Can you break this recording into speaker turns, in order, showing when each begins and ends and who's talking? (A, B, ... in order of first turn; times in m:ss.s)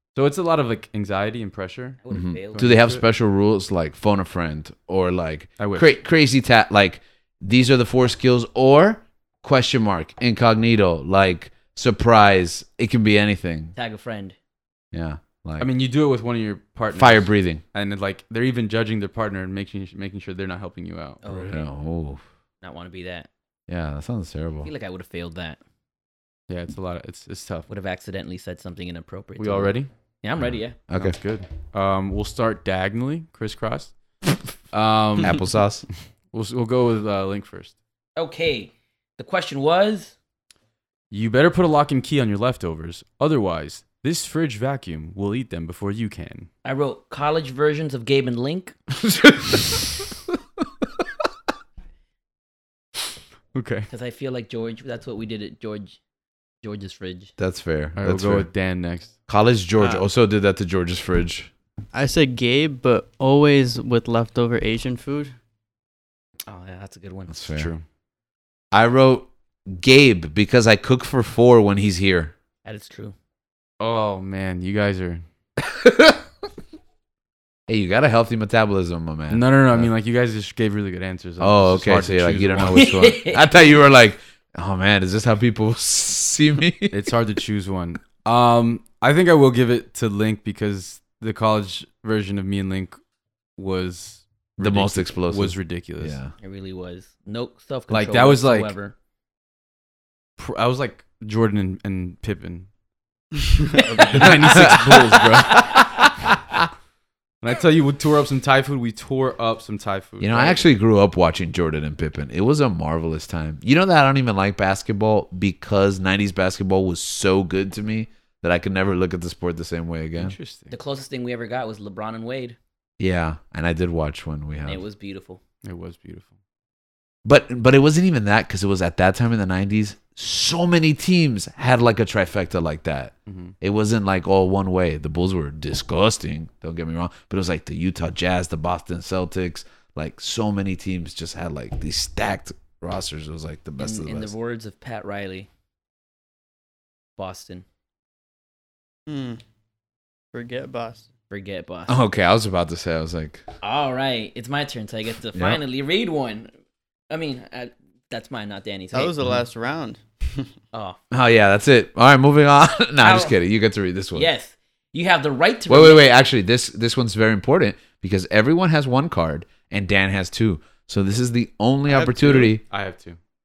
0:00.2-0:02.0 A
0:02.0-0:02.7 B
0:02.1-0:13.8 C
0:02.5-0:03.0 A
0:05.6-0:05.9 A
0:13.8-0:14.4 B
0:14.9-0:15.7 C
0:15.6-0:21.4 A
0:16.9-0:17.6 C
0:21.2-0:21.7 B
0:21.3-0:22.2 C
0:22.6-0:23.3 B
0:23.7-0:24.7 C
0:24.6-0:25.6 B
0:26.5-0:27.7 A
0:27.7-0:30.8 B
0:29.4-0:29.9 A
0:30.4-0:31.2 C
0:31.0-0:34.0 A
0:34.7-0:35.5 A
0:35.2-0:35.9 C
0:36.3-0:37.8 A
0:38.2-0:40.2 B
0:41.1-0:46.5 A
0:46.6-0:48.8 B
0:48.9-0:50.1 C
0:53.5-0:53.9 A
0:53.9-0:56.0 B
0:56.6-0:57.3 B
0:57.4-0:58.5 C
0:58.0-0:59.1 A
0:59.3-1:01.5 C
1:01.9-1:05.3 D
1:06.5-1:07.3 B
1:07.3-1:07.7 C
1:07.5-1:07.8 A
1:08.7-1:12.3 C
1:12.6-1:13.2 B
1:13.8-1:15.2 A
1:15.6-1:16.2 C
1:17.7-1:19.9 C
1:19.3-1:22.9 A
1:21.4-1:27.0 C
1:22.7-1:23.5 B
1:26.9-1:33.0 A
1:33.6-1:36.2 A
1:34.6-1:36.3 C
1:36.4-1:39.0 B
1:37.9-1:38.7 A
1:40.4-1:42.7 A
1:43.7-1:45.9 A
1:43.8-1:44.7 B
1:44.2-1:46.7 C
1:47.4-1:50.6 A
1:50.2-2:00.4 C
2:00.2-2:00.7 A
2:00.7-2:02.6 B
2:03.0-2:04.8 C
2:04.6-2:05.4 B
2:05.6-2:06.3 A
2:07.2-2:24.3 C
2:13.3-2:13.5 A
2:23.8-2:25.5 B
2:27.2-2:27.6 B
2:29.1-2:29.4 D
2:30.3-2:31.1 D
2:31.3-2:32.0 B
2:31.9-2:33.4 C
2:33.6-2:36.5 B
2:35.4-2:35.6 C
2:37.1-2:39.1 B
2:38.9-2:40.5 D
2:40.7-2:41.0 B
2:41.1-2:44.3 C
2:43.0-2:43.4 B
2:44.2-2:46.1 B
2:45.7-2:52.6 C
2:51.9-2:52.5 D
2:52.6-2:53.2 A